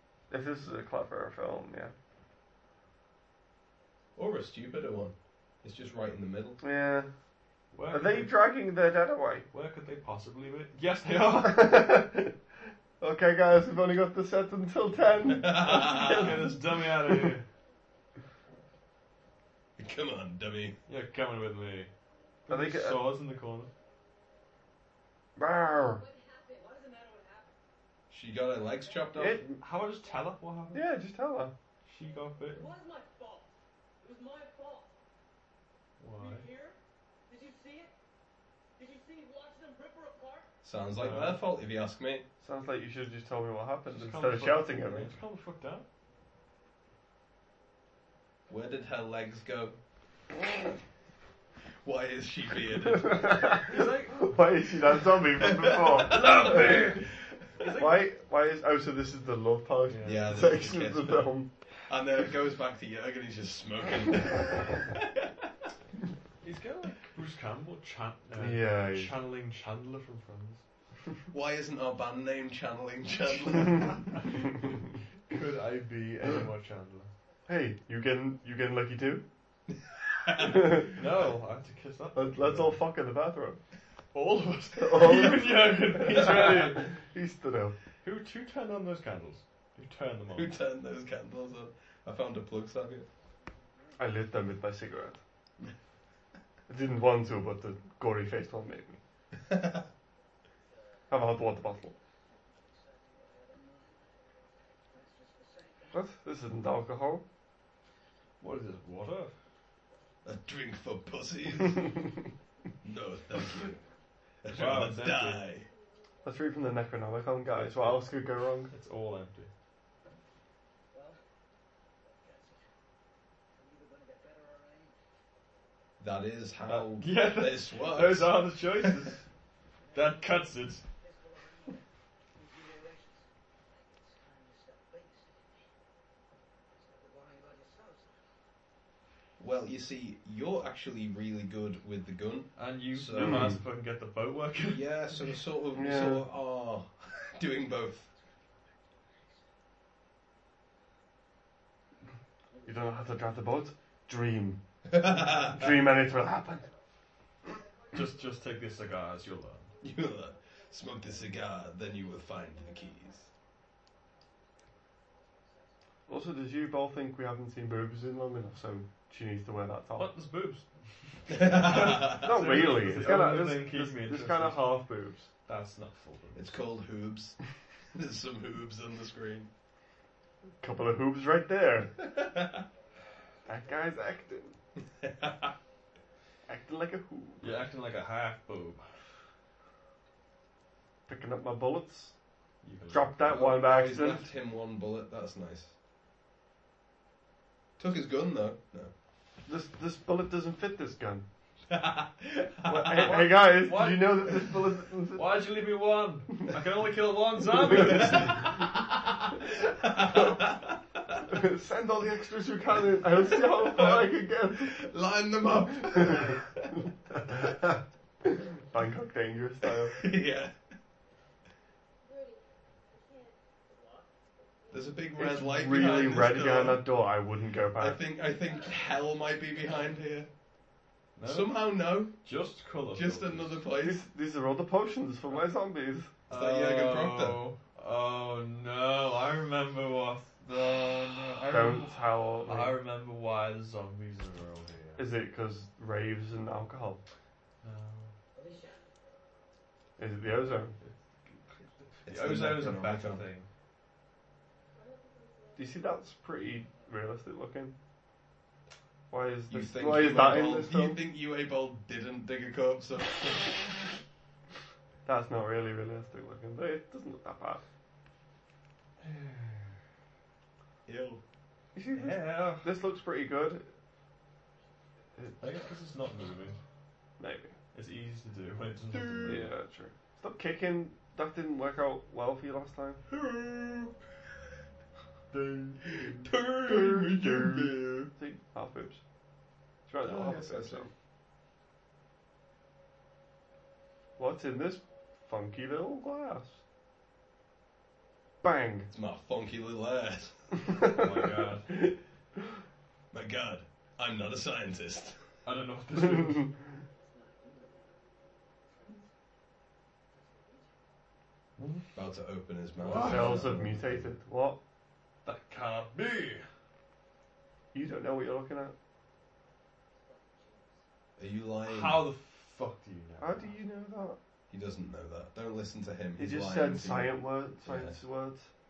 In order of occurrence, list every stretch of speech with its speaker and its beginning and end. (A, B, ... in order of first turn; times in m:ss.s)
0:00.3-0:01.9 A
0:04.2-0:06.6 B
0:06.6-0:07.1 A
0:07.7-0:08.3 C
0:07.9-0:09.4 A
0:09.5-0:11.8 C
0:11.3-0:12.3 A
0:13.0-0:17.4 A
0:15.3-0:16.3 B
0:15.7-0:17.4 C
0:19.8-0:20.8 B
0:20.9-0:21.9 C
0:22.5-0:23.1 A
0:22.5-0:23.7 C
0:25.4-0:26.0 A
0:25.9-0:27.6 D
0:28.1-0:29.5 B
0:29.1-0:29.6 A
0:29.6-0:30.8 C
0:30.7-0:31.5 A
0:31.8-0:32.7 C
0:32.5-0:34.9 D
0:36.0-0:36.5 C
0:36.2-0:37.9 D
0:38.8-0:40.5 D
0:40.6-0:42.2 B
0:41.0-0:41.4 C
0:42.4-0:45.1 A
0:43.9-0:45.9 C
0:48.5-0:49.8 B
0:51.8-0:53.4 B
0:52.7-0:57.0 A
0:53.5-0:54.4 C
0:55.4-0:57.1 B
0:56.1-0:57.1 C
0:57.6-0:58.0 C
0:57.8-1:01.5 A
0:59.9-1:00.6 C
1:00.0-1:01.3 B
1:01.9-1:05.1 B
1:06.4-1:10.6 C
1:08.4-1:09.1 A
1:11.3-1:14.1 B
1:13.6-1:14.6 C
1:15.3-1:17.1 C
1:17.5-1:19.2 A
1:20.1-1:20.9 B
1:20.4-1:21.0 A
1:20.9-1:22.8 C
1:22.1-1:23.6 A
1:24.1-1:26.9 C
1:24.8-1:27.8 A
1:26.1-1:26.6 B
1:28.0-1:30.6 C
1:30.3-1:33.1 B
1:34.0-1:35.2 A
1:36.7-1:39.0 A
1:39.5-1:39.8 B
1:41.1-1:41.9 A
1:42.7-1:44.2 D
1:44.9-1:46.0 D
1:45.9-1:47.2 A
1:48.4-1:49.3 C
1:50.2-1:51.9 B
1:52.8-1:53.8 B
1:54.4-1:55.7 B
1:54.5-1:55.4 C
1:56.2-1:58.7 A
1:57.5-1:58.1 C
1:58.7-1:59.5 C
2:00.9-2:01.2 D
2:02.0-2:02.7 D
2:03.5-2:05.0 D
2:06.0-2:08.4 B
2:06.7-2:09.2 C
2:09.9-2:10.2 D
2:09.9-2:10.8 C
2:11.0-2:11.8 D
2:12.3-2:15.6 D
2:16.7-2:18.3 D
2:19.4-2:23.5 B
2:22.6-2:24.9 C
2:23.2-2:23.6 A
2:24.6-2:28.1 B
2:25.7-2:26.2 A
2:32.5-2:33.1 D
2:32.6-2:34.6 A
2:34.8-2:35.7 B
2:35.1-2:36.6 A
2:37.9-2:39.7 C
2:39.8-2:43.3 B
2:40.9-2:41.2 D
2:45.1-2:45.7 D
2:46.1-2:50.1 A
2:50.0-2:50.6 C
2:51.3-2:52.3 B
2:51.3-2:54.7 C
2:52.1-2:55.3 A
2:55.4-2:56.6 C
2:56.3-2:57.4 B
2:57.9-2:59.5 B
3:00.6-3:01.9 A
3:02.0-3:02.6 B
3:03.4-3:04.6 A
3:05.0-3:05.5 B
3:06.5-3:07.6 A
3:07.4-3:08.8 C
3:11.1-3:12.1 A
3:12.6-3:13.3 C
3:12.9-3:14.3 A
3:13.2-3:15.7 B
3:17.8-3:18.9 B
3:19.4-3:21.2 A
3:21.7-3:23.2 B
3:22.6-3:25.4 A
3:22.8-3:24.5 C
3:25.1-3:28.6 C
3:27.9-3:31.2 B
3:31.3-3:34.8 A
3:33.2-3:36.9 B
3:35.9-3:36.3 A
3:37.1-3:40.0 A
3:39.9-3:40.5 B
3:42.0-3:44.1 D
3:44.6-3:45.0 D
3:44.7-3:46.9 B
3:45.2-3:48.0 A
3:47.8-3:50.3 B
3:51.2-3:53.6 C
3:51.2-3:52.2 B
3:52.9-3:54.0 B
3:53.8-3:56.1 A
3:56.3-3:57.4 B
3:56.3-4:05.1 C
4:01.4-4:02.8 A
4:05.0-4:07.0 A
4:07.6-4:08.1 C
4:08.3-4:08.8 D
4:10.0-4:10.8 A
4:10.8-4:13.5 C
4:12.0-4:13.2 B
4:14.7-4:16.0 D
4:15.6-4:17.7 A
4:19.1-4:21.0 A
4:19.5-4:23.8 B
4:25.0-4:27.6 A
4:29.1-4:29.6 C
4:30.8-4:31.2 B
4:31.7-4:33.7 A
4:31.9-4:32.7 C
4:35.4-4:36.6 C
4:37.2-4:37.5 A
4:37.7-4:39.5 C
4:38.9-4:39.5 B
4:39.2-4:43.0 A
4:43.1-4:43.9 B
4:45.3-4:46.3 C
4:45.9-4:48.1 B
4:46.6-4:49.0 A
4:47.4-4:48.0 C
4:49.9-4:50.9 A
4:50.0-4:50.9 B
4:54.2-4:56.6 A
4:58.4-4:58.9 A
4:58.9-5:00.4 B
5:00.6-5:01.9 A
5:00.8-5:01.7 C
5:03.1-5:05.2 B
5:05.4-5:06.5 C
5:05.9-5:06.5 A
5:07.0-5:08.0 D
5:08.6-5:09.1 D
5:10.1-5:10.7 D
5:11.6-5:11.8 C
5:11.9-5:14.1 B
5:12.8-5:13.5 C
5:12.9-5:14.6 A
5:15.2-5:16.4 C
5:17.7-5:18.7 A
5:19.9-5:20.8 D
5:21.2-5:22.1 B
5:21.6-5:23.6 C
5:23.2-5:24.2 A
5:24.5-5:28.0 B
5:26.2-5:28.5 A